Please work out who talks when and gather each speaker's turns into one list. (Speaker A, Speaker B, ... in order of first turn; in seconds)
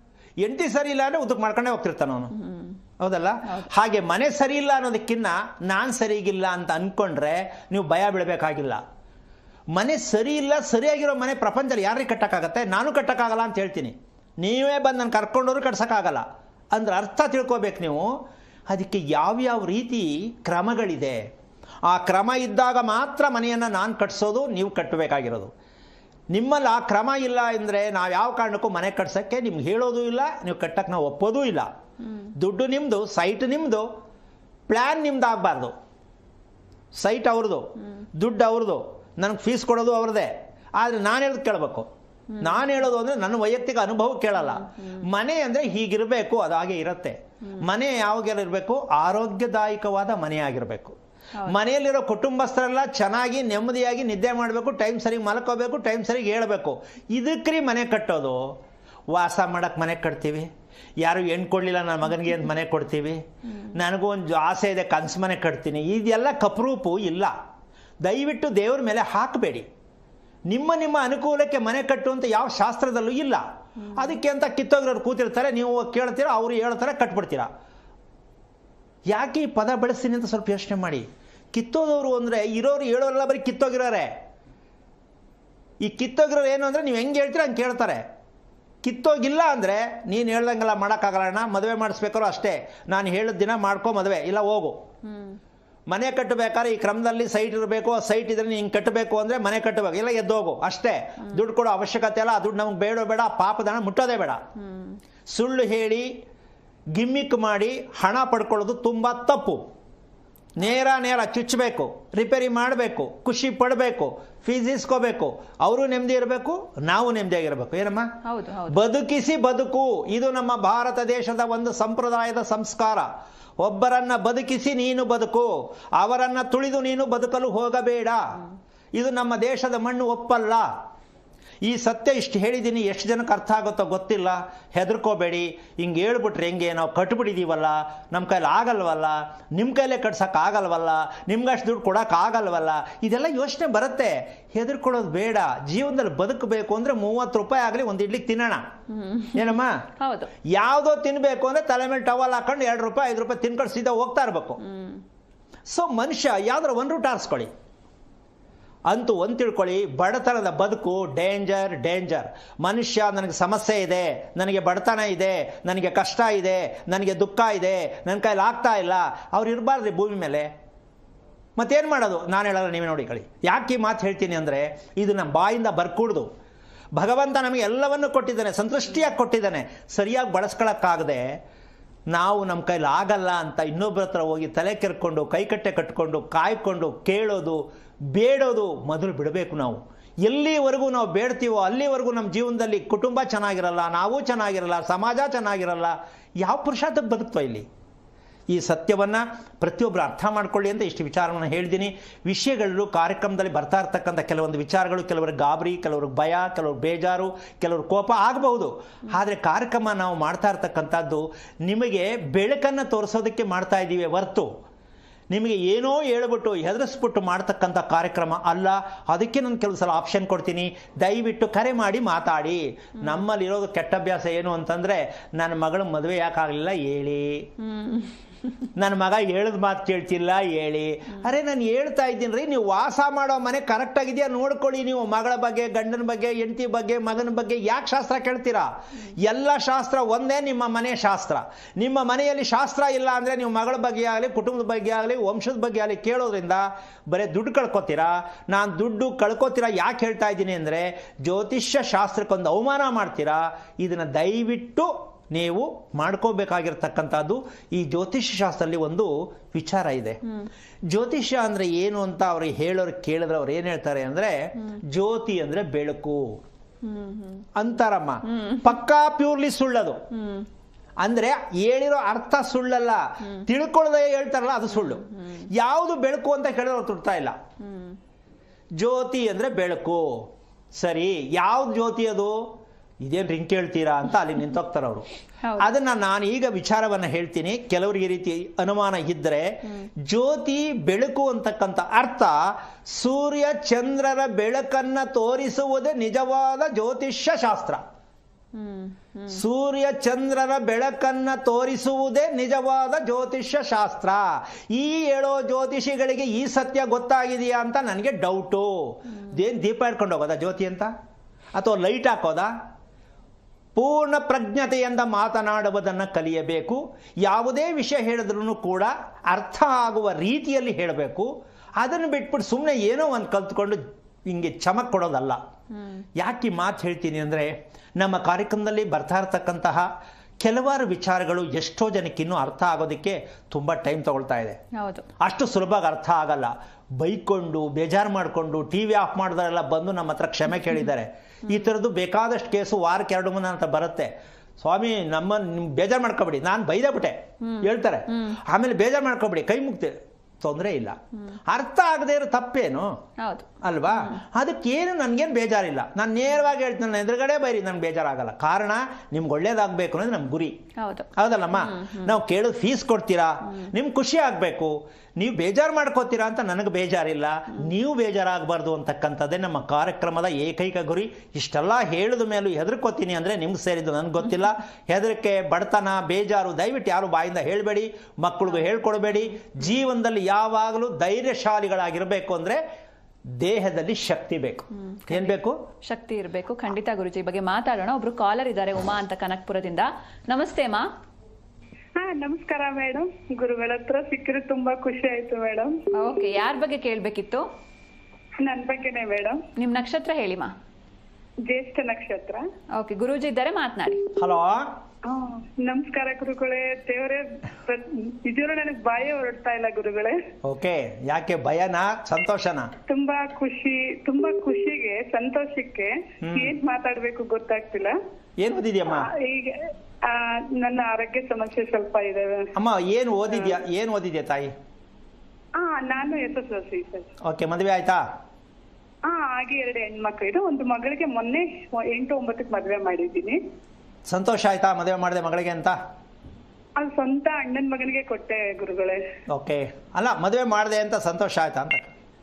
Speaker A: 0.4-2.3, 3.0-8.8, 9.7-18.1, 18.7-21.2, 21.9-25.5, 26.3-31.7, 32.4-33.9, 34.7-35.7, 36.9-41.9, 42.4-58.5, 59.1-60.5, 61.0-63.2, 63.7-67.3, 68.0-69.7, 70.5-73.4, 73.9-77.5, 79.1-84.1, 85.8-88.0, 88.8-94.8, 95.9-104.4, 105.3-106.1, 106.9-109.6, 110.6-118.1, 118.7-123.1, 123.6-128.2, 128.9-130.7, 131.7-148.6, 149.3-149.8, 150.4-154.6, 155.7-157.5, 158.9-170.5, 171.6-176.3, 176.9-181.3, 182.1-197.7, 198.5-214.5, 215.3-227.5, 228.8-260.2, 260.9-266.4, 267.5-270.0, 271.0-277.4, 278.8-285.1, 285.6-297.8, 299.3-310.9, 311.6-312.5, 313.8-325.4, 326.1-329.9, 330.4-334.6, 335.2-352.9, 353.6-360.6, 361.1-382.6, 383.4-385.6, 404.2-404.7, 410.4-412.7, 416.2-416.6, 418.4-419.1, 422.6-424.5, 427.2-428.0, 434.1-435.8, 439.3-441.9
Speaker B: 2.3-2.8, 32.0-32.3, 42.3-42.6, 44.5-45.0, 73.8-74.1, 95.0-95.4, 104.6-105.0, 118.2-118.8, 148.9-150.3, 154.6-155.0, 227.6-228.7, 266.8-267.5, 268.3-268.6, 270.1-270.5, 274.8-275.5, 277.6-278.0, 285.4-285.7, 298.5-299.4, 325.7-326.0, 334.7-335.1, 347.4-348.4, 353.2-354.2, 360.8-362.1, 384.8-390.9, 395.9-397.4, 399.6-400.5, 402.7-404.1
Speaker C: 391.9-395.8, 398.4-399.4, 401.4-402.5, 405.0-410.2, 412.9-417.9, 418.9-422.5, 425.6-427.1, 429.0-433.4, 436.8-439.0